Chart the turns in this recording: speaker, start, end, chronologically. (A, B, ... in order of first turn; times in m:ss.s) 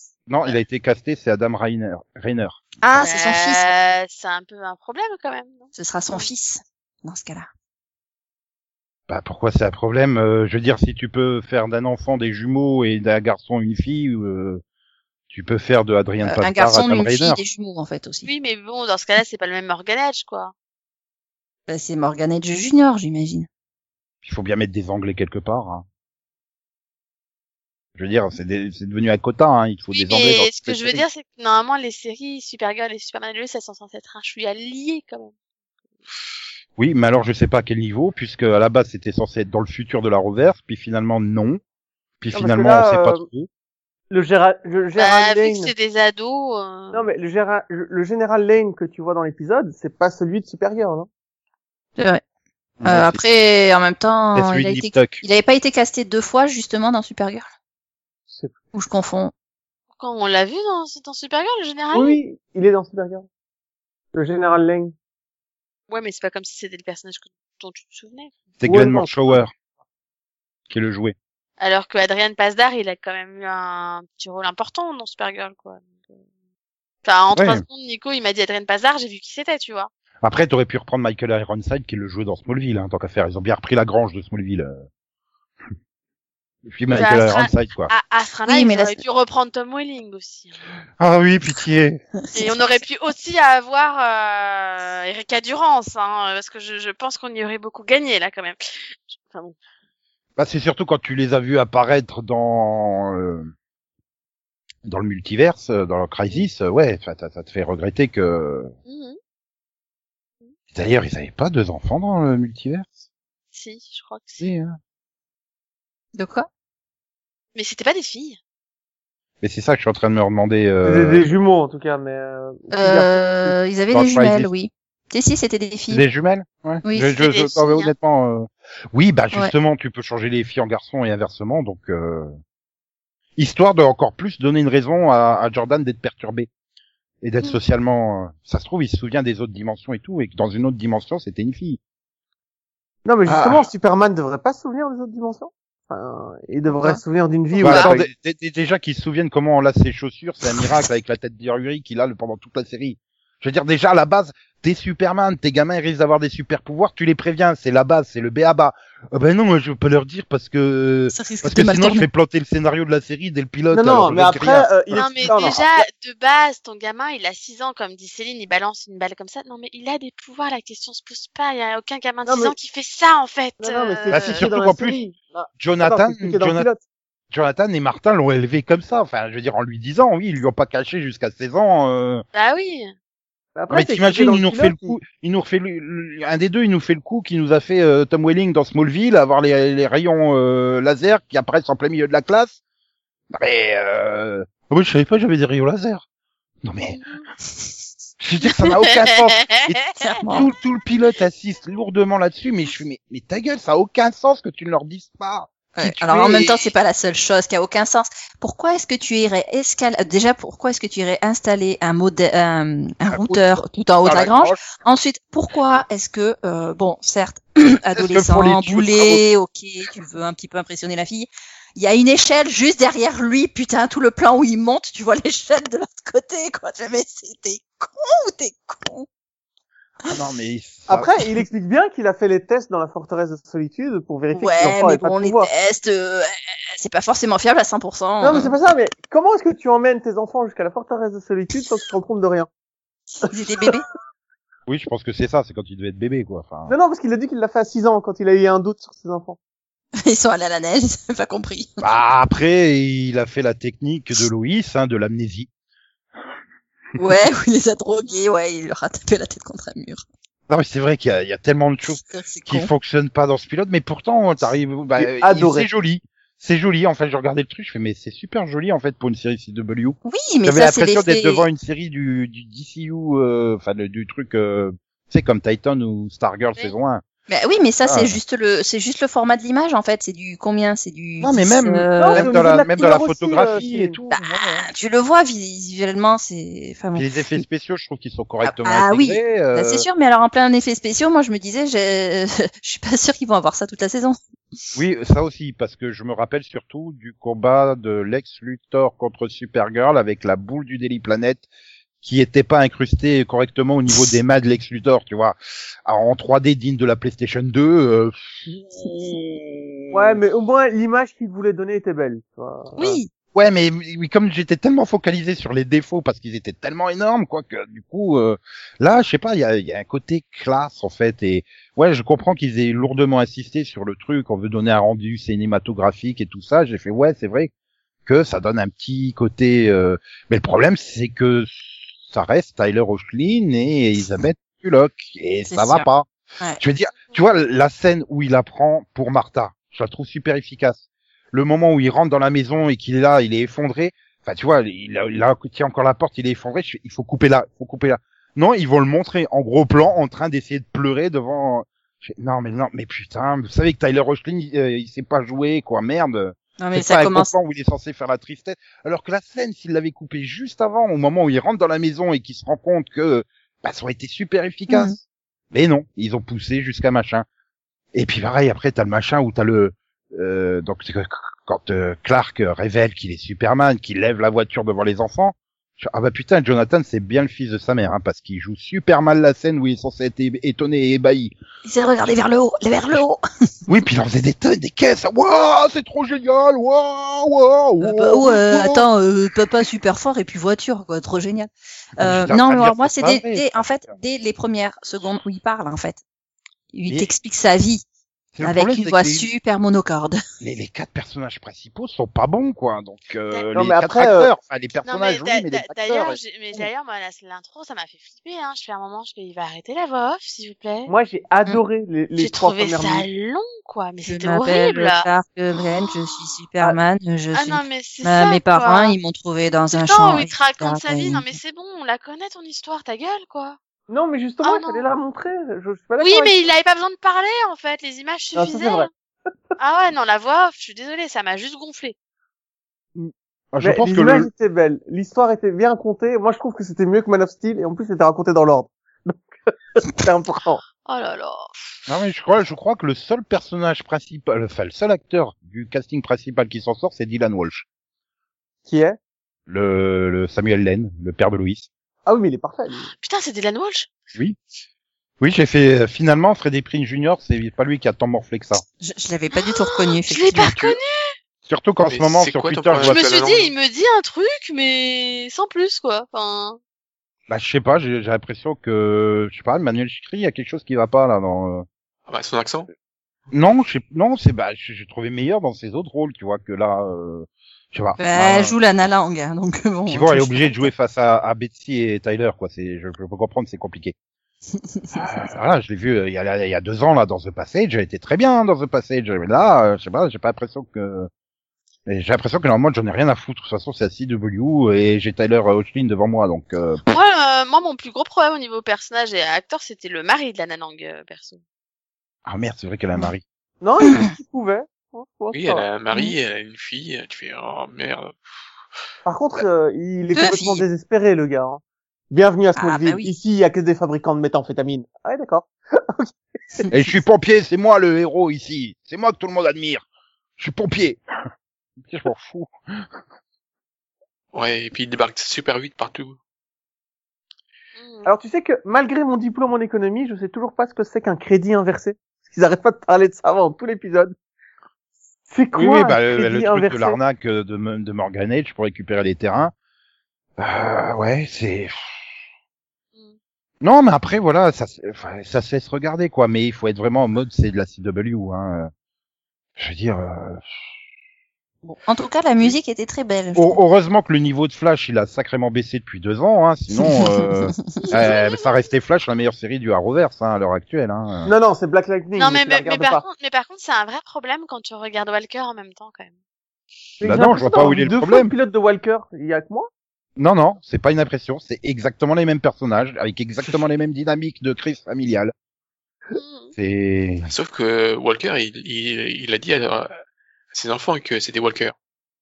0:00.3-0:02.6 A
0:02.8-0:03.7 B
0:03.0-0:06.3 C
0:05.8-0:07.5 B
0:09.1-0:14.6 A
0:15.3-0:17.4 A
0:16.2-0:18.3 B
0:18.2-0:20.5 C
0:21.7-0:23.5 B
0:24.2-0:25.9 A
0:28.0-0:31.0 A
0:29.9-0:35.3 C
0:36.8-0:41.6 A
0:42.2-0:43.5 A
0:42.3-0:43.2 D
0:44.1-0:45.7 D
0:45.0-0:47.1 C
0:46.9-0:51.1 D
0:52.0-0:52.2 B
0:52.8-0:53.2 A
0:52.8-0:57.5 B
0:54.4-0:55.2 A
0:58.3-0:58.6 D
0:58.7-0:59.3 B
1:00.0-1:02.2 C
1:01.9-1:03.3 D
1:04.1-1:04.9 D
1:05.9-1:08.3 C
1:08.6-1:09.5 A
1:08.6-1:09.4 D
1:10.7-1:11.2 A
1:11.6-1:16.2 C
1:17.0-1:19.9 C
1:17.4-1:17.6 A
1:20.2-1:24.8 A
1:26.6-1:27.9 A
1:26.9-1:30.6 C
1:28.5-1:29.0 B
1:31.0-1:32.0 A
1:32.3-1:39.6 C
1:40.4-1:43.5 A
1:44.8-1:48.7 A
1:48.9-1:49.2 C
1:50.7-1:53.0 A
1:53.5-1:54.5 C
1:54.4-1:54.8 A
1:56.2-1:56.5 B
1:57.6-1:58.4 C
1:59.4-2:01.3 A
2:00.8-2:03.6 D
2:02.7-2:06.0 B
2:03.9-2:04.5 A
2:05.9-2:12.4 A
2:06.8-2:07.2 B
2:07.1-2:07.9 C
2:13.4-2:16.5 A
2:17.2-2:21.8 A
2:23.0-2:28.1 D
2:23.3-2:23.7 A
2:26.7-2:27.0 B
2:27.6-2:45.4 A
2:41.1-2:42.1 B
2:43.7-2:45.9 D
2:44.9-2:54.4 C
2:52.3-2:52.5 D
2:53.6-2:56.8 D
2:54.1-2:55.0 A
2:55.6-2:56.7 A
2:57.3-3:02.2 A
3:02.3-3:02.9 C
3:03.6-3:05.0 D
3:03.7-3:12.6 A
3:13.3-3:16.0 A
3:16.6-3:17.0 A
3:16.9-3:17.2 C
3:18.2-3:26.7 A
3:18.8-3:20.2 C
3:20.0-3:20.5 B
3:25.8-3:49.1 B
3:33.1-3:33.4 A
3:34.0-3:34.6 A
3:37.9-3:39.3 A
3:50.1-3:51.1 A
3:50.9-3:55.5 D
3:54.3-3:58.6 B
3:58.2-4:02.5 D
4:03.2-4:03.8 B
4:03.4-4:03.8 D
4:04.7-4:06.8 A
4:06.7-4:09.4 D
4:10.0-4:11.8 B
4:11.8-4:15.5 A
4:17.0-4:20.0 B
4:20.5-4:37.0 A
4:22.0-4:22.7 B
4:25.0-4:25.7 D
4:30.0-4:31.4 B
4:37.3-4:42.4 B
4:37.8-4:38.2 A
4:41.2-4:44.7 A
4:42.0-4:44.0 D
4:44.1-4:47.1 B
4:47.0-4:49.9 A
4:48.4-4:54.2 B
4:54.8-5:01.5 A
5:02.0-5:10.2 A
5:09.9-5:13.0 D
5:12.8-5:13.1 B
5:13.3-5:27.5 A
5:28.1-5:36.1 A
5:35.5-5:35.8 B
5:36.6-6:05.0 A
5:56.6-5:57.3 B
6:04.7-6:05.0 B
6:05.5-6:07.3 A
6:07.9-6:21.4 A
6:21.7-6:23.2 B
6:23.7-6:28.9 A
6:27.8-6:36.0 B
6:32.0-6:34.0 A
6:36.7-6:37.8 B
6:38.4-6:39.3 A
6:38.4-6:40.2 B
6:40.4-6:46.2 A
6:43.6-6:44.3 D
6:44.8-6:50.9 C
6:50.9-6:53.1 D
6:52.2-6:55.1 C
6:54.0-7:01.4 B
6:55.6-6:56.2 C
6:57.3-6:59.0 C
6:59.7-7:03.6 C
7:03.9-7:06.4 D
7:04.4-7:04.8 C
7:06.0-7:08.9 C
7:08.3-7:08.9 D
7:09.6-7:12.0 C
7:13.0-7:19.2 D
7:13.5-7:14.3 A
7:19.8-7:20.6 D
7:20.9-7:21.5 C
7:21.9-7:27.7 A
7:28.7-7:29.0 D
7:29.5-7:31.7 A
7:32.1-7:32.9 D
7:33.0-7:33.9 C
7:35.2-7:38.6 A
7:38.8-7:40.6 B
7:39.3-7:41.1 C
7:40.4-7:40.7 A
7:41.5-7:43.0 A
7:41.9-7:43.5 E
7:42.8-7:46.6 C
7:47.3-7:51.7 A
7:52.1-7:52.7 E
7:53.3-7:58.5 A
7:58.0-8:00.7 B
7:59.9-8:04.0 A
8:04.8-8:05.0 B
8:04.9-8:11.1 A
8:11.9-8:16.8 A
8:16.9-8:21.4 C
8:22.3-8:23.2 A
8:23.6-8:25.7 D
8:25.3-8:28.2 E
8:29.0-8:36.6 D
8:30.2-8:30.6 B
8:32.6-8:33.1 B
8:36.7-8:39.9 A
8:40.4-8:41.0 A
8:41.8-8:42.9 A
8:44.3-8:46.2 E
8:47.8-8:48.1 C
8:48.0-8:54.2 D
8:55.3-8:57.0 D
8:55.5-8:59.5 A
9:00.4-9:02.0 A
9:03.6-9:08.7 A
9:09.6-9:10.5 A
9:11.6-9:13.6 B
9:13.4-9:21.3 A
9:16.7-9:17.9 B
9:17.8-9:18.5 C
9:21.3-9:23.0 D
9:22.2-9:26.1 C
9:27.0-9:28.3 A
9:27.0-9:29.7 D
9:30.2-9:35.3 A
9:36.1-9:36.5 C
9:36.6-9:37.3 A
9:37.3-9:39.9 E
9:40.5-9:41.7 E